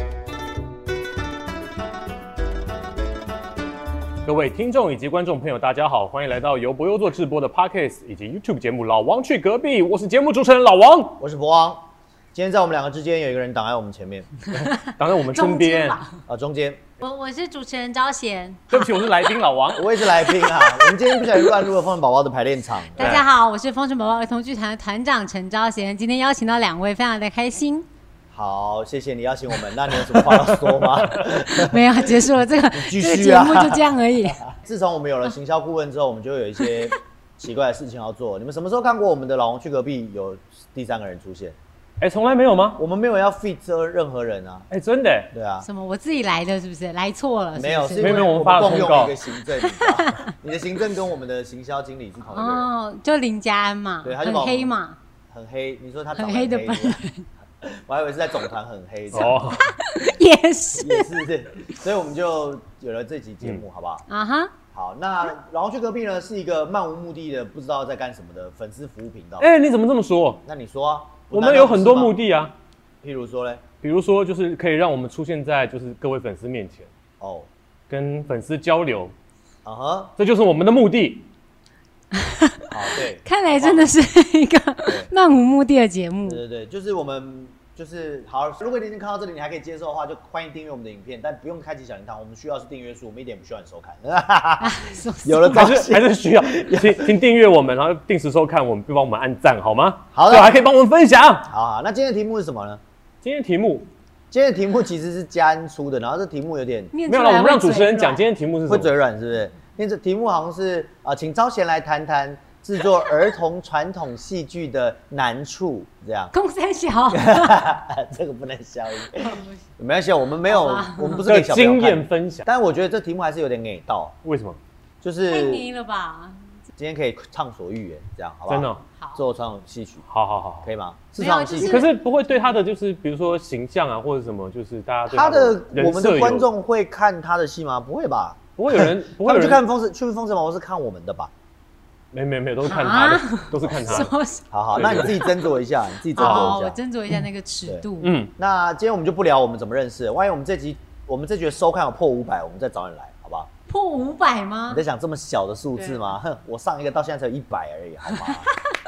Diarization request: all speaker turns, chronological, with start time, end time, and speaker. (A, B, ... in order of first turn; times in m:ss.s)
0:04.2-0:11.2 A
0:11.2-0:14.3 B
0:14.5-0:16.0 A
0:14.6-0:16.2 C
0:16.3-0:16.8 B
0:17.0-0:18.9 C
0:18.7-0:20.0 A
0:19.7-0:23.2 B
0:20.2-0:21.5 C
0:23.0-0:27.9 C
0:28.3-0:41.6 B
0:30.3-0:31.1 A
0:31.5-0:34.4 C
0:42.0-0:42.8 A
0:42.8-0:44.7 B
0:44.7-0:45.3 A
0:45.3-0:45.7 B
0:45.6-0:48.4 C
0:47.6-0:52.7 B
0:48.0-0:49.2 A
0:49.5-0:50.3 C
0:52.3-0:55.0 C
0:54.0-0:54.7 B
0:55.3-0:57.0 B
0:56.1-0:57.3 C
0:57.6-0:59.5 B
0:59.1-0:59.7 A
0:59.2-1:01.1 C
1:00.8-1:04.0 B
1:04.1-1:04.5 C
1:04.7-1:09.5 B
1:09.4-1:10.4 A
1:10.4-1:12.2 B
1:11.3-1:12.5 A
1:13.0-1:13.6 B
1:13.8-1:16.9 A
1:17.2-1:17.5 B
1:17.9-1:19.1 A
1:19.6-1:20.1 B
1:20.2-1:21.3 A
1:22.1-1:26.4 C
1:22.7-1:23.9 B
1:26.2-1:37.1 B
1:34.6-1:35.7 C
1:35.5-1:41.5 A
1:40.1-1:40.6 B
1:41.4-1:42.8 B
1:43.2-1:43.9 A
1:44.3-1:46.9 B
1:46.9-1:48.2 C
1:47.1-1:48.9 A
1:48.6-1:56.3 B
1:56.3-1:57.6 C
1:57.1-2:04.2 B
1:59.1-1:59.6 C
2:00.4-2:01.2 C
2:01.2-2:02.4 A
2:04.2-2:04.6 A
2:05.0-2:05.6 B
2:05.3-2:06.5 C
2:06.8-2:10.0 B
2:08.5-2:08.8 A
2:10.1-2:10.7 A
2:10.6-2:11.8 B
2:11.2-2:12.6 C
2:11.6-2:16.5 A
2:15.1-2:21.3 B
2:18.6-2:19.6 A
2:22.1-2:24.1 A
2:22.6-2:24.4 C
2:23.6-2:26.8 B
2:24.7-2:25.2 A
2:24.9-2:25.3 C
2:26.1-2:28.2 C
2:26.2-2:26.6 A
2:28.0-2:28.3 A
2:28.4-2:33.5 B
2:33.7-2:34.8 C
2:34.7-2:38.5 B
2:35.8-2:36.1 C
2:38.1-2:38.4 C